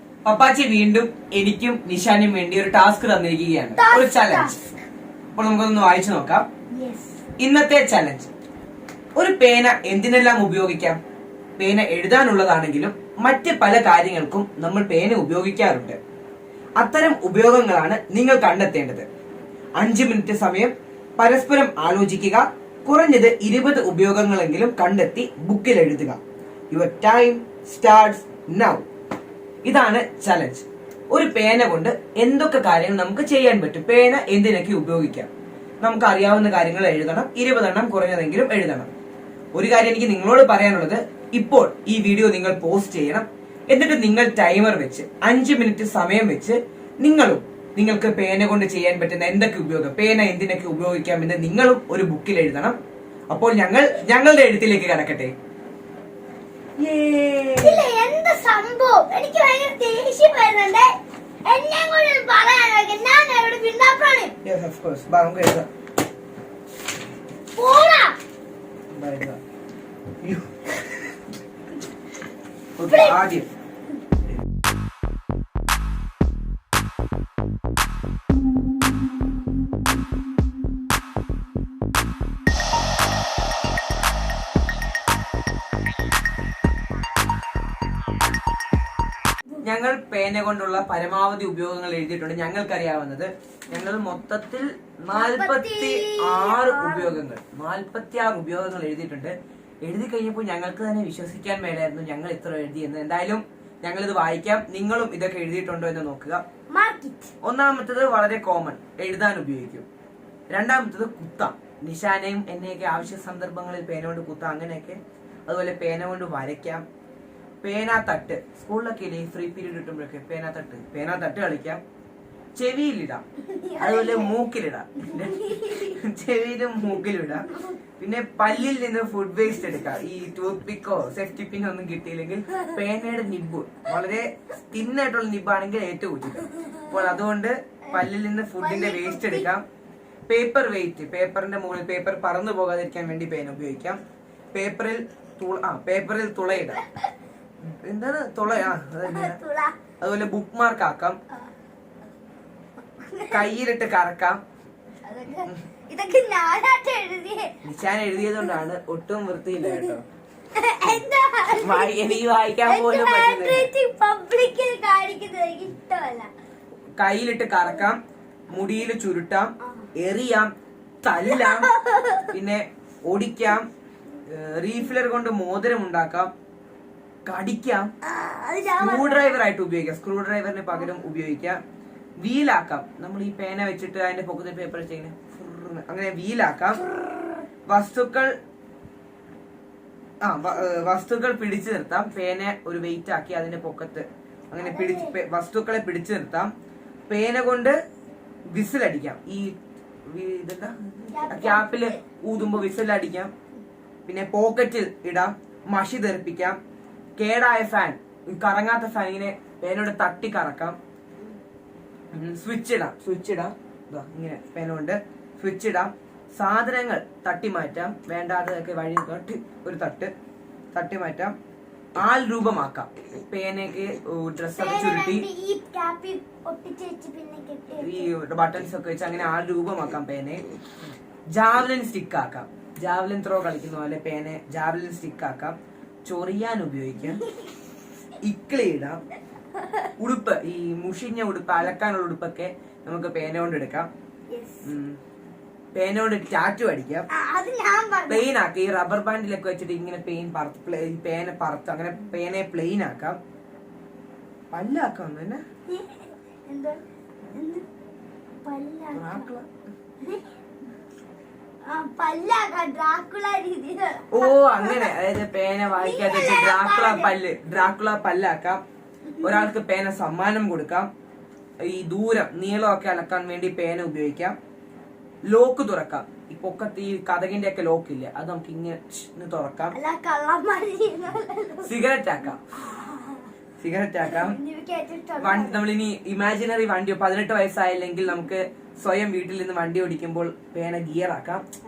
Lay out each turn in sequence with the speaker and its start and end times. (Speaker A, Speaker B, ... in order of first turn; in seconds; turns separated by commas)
Speaker A: 0.2-4.5, Speaker B: 3.8-4.7, Speaker A: 5.3-6.5, Speaker B: 6.7-7.2, Speaker A: 7.4-8.3, Speaker A: 9.2-11.0, Speaker A: 11.6-16.0, Speaker A: 16.8-19.1, Speaker A: 19.8-26.2, Speaker A: 26.7-28.9, Speaker A: 29.6-38.9, Speaker A: 39.5-52.8, Speaker A: 53.3-55.3, Speaker A: 56.8-57.8, Speaker B: 57.6-60.9, Speaker B: 61.5-64.3, Speaker A: 64.4-65.7, Speaker B: 67.5-68.2, Speaker A: 68.9-69.4, Speaker A: 70.2-70.9, Speaker A: 72.8-73.5, Speaker B: 72.9-73.2, Speaker A: 89.6-106.4, Speaker B: 93.8-94.0, Speaker B: 95.1-97.2, Speaker B: 106.7-107.3, Speaker A: 107.4-109.9, Speaker A: 110.5-116.8, Speaker A: 117.6-121.8, Speaker A: 122.5-123.2, Speaker B: 123.4-124.4, Speaker A: 123.8-125.4, Speaker B: 125.0-126.0, Speaker A: 125.9-127.5, Speaker B: 127.0-127.8, Speaker A: 128.0-139.6, Speaker B: 136.4-137.2, Speaker B: 138.6-139.5, Speaker A: 140.3-144.0, Speaker A: 144.5-146.8, Speaker B: 146.5-147.1, Speaker A: 147.6-149.4, Speaker B: 149.0-149.8, Speaker A: 150.0-151.2, Speaker B: 153.1-153.6, Speaker A: 153.3-154.4, Speaker B: 155.0-157.6, Speaker A: 157.6-160.0, Speaker B: 158.2-158.6, Speaker B: 159.6-160.0, Speaker B: 160.5-166.3, Speaker A: 161.6-163.7, Speaker A: 167.0-170.5, Speaker A: 171.0-171.7, Speaker B: 171.2-172.3, Speaker A: 172.3-173.7, Speaker A: 174.3-176.3, Speaker A: 177.3-177.9, Speaker B: 178.1-179.3, Speaker A: 178.8-181.6, Speaker A: 182.2-186.8, Speaker B: 186.8-187.4, Speaker A: 187.7-188.3, Speaker A: 190.2-196.5, Speaker B: 194.6-195.2, Speaker A: 197.1-197.8, Speaker A: 198.5-199.5, Speaker A: 200.1-203.3, Speaker B: 201.1-202.0, Speaker A: 204.1-206.6, Speaker A: 207.2-210.8, Speaker A: 212.1-220.1, Speaker A: 220.7-221.3, Speaker A: 222.0-225.2, Speaker B: 224.6-228.1, Speaker A: 227.8-230.4, Speaker A: 231.3-237.2, Speaker B: 237.1-237.5, Speaker A: 238.2-239.0, Speaker B: 239.6-239.9, Speaker A: 240.0-243.9, Speaker B: 244.3-244.7, Speaker A: 244.7-245.0, Speaker A: 245.8-247.1, Speaker B: 247.1-248.3, Speaker A: 248.1-253.2, Speaker A: 254.5-255.4, Speaker B: 255.7-257.6, Speaker B: 258.4-259.3, Speaker A: 258.9-259.5, Speaker B: 261.7-264.9, Speaker A: 264.1-268.6, Speaker B: 265.7-267.1, Speaker B: 269.2-269.5, Speaker A: 269.2-270.9, Speaker A: 271.6-274.4, Speaker A: 275.3-279.8, Speaker B: 279.7-281.8, Speaker A: 281.6-282.4, Speaker B: 282.5-283.3, Speaker A: 283.6-284.4, Speaker B: 284.0-285.7, Speaker A: 285.2-291.4